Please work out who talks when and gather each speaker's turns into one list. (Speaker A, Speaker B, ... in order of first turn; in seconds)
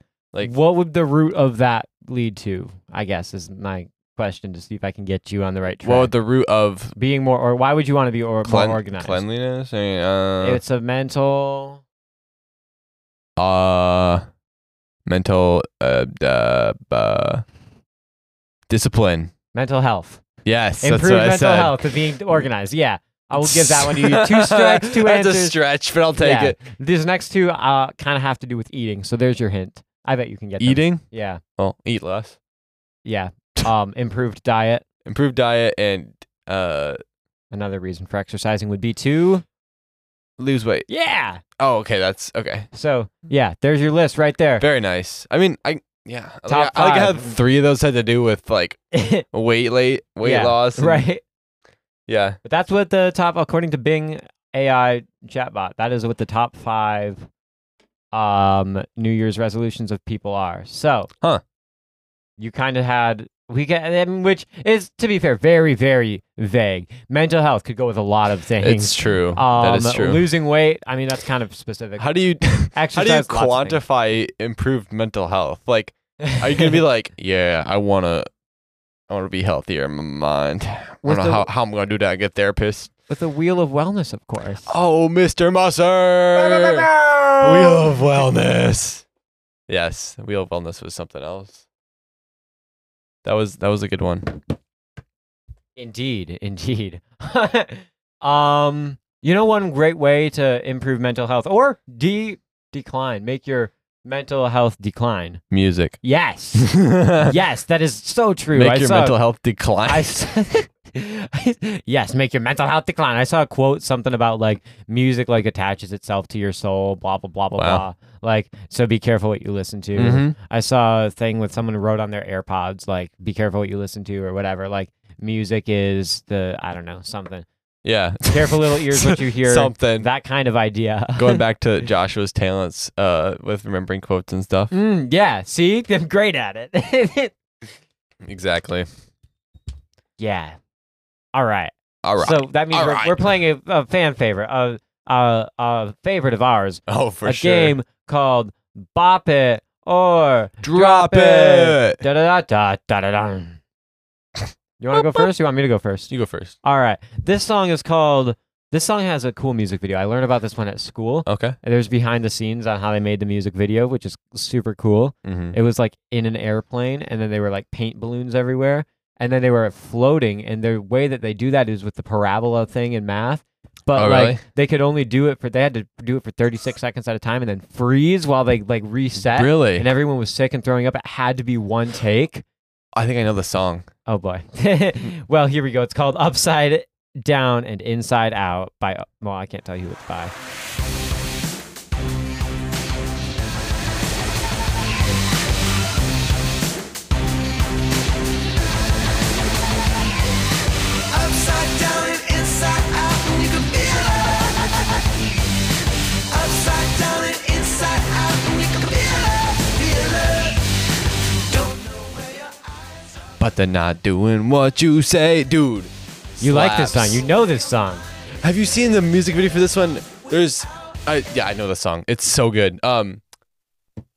Speaker A: 0.4-6.1, 6.9-9.2, 10.4-11.8, 19.5-20.2, 20.8-25.6, 26.2-31.4, 33.0-34.8, 37.5-39.4, 40.9-41.4, 42.7-44.6, 46.5-47.4, 48.9-49.2, 50.2-51.2, 52.4-57.3, 58.1-61.1, 62.4-72.1, 72.7-73.8, 76.2-76.7, 81.0-81.5, 83.1-84.7, 86.3-87.9, 95.8-105.4, 106.0-109.2, 109.8-127.5, 128.3-131.4, 134.7-137.3, 140.2-140.6, 141.3-153.6, 154.8-156.1, 156.6-182.4, 184.1-190.3, 216.4-218.0
Speaker B: 5.8-6.9, 8.4-10.6, 13.4-14.2, 15.1-17.4, 18.7-19.3, 20.4-21.9, 23.4-26.6, 30.6-31.0, 31.6-32.4, 35.0-37.0, 40.4-40.9, 41.6-42.7, 44.6-51.0, 52.1-52.4, 68.6-70.3, 72.0-78.3, 79.1-82.9, 84.7-86.9, 87.4-89.0, 89.7-91.6, 93.2-94.4, 105.5-106.0, 106.5-107.3, 108.5-110.1, 117.6-117.8, 119.9-120.3, 127.8-130.1, 131.2-134.7, 138.2-138.9, 142.0-143.2, 146.9-147.7, 150.6-152.0, 154.9-155.2, 156.1-156.6, 161.2-161.6, 165.2-165.6, 173.9-174.4, 179.3-179.9, 182.9-183.9, 213.4-217.2, 218.4-223.2
Speaker C: 201.1-204.7, 206.3-210.6, 211.5-212.1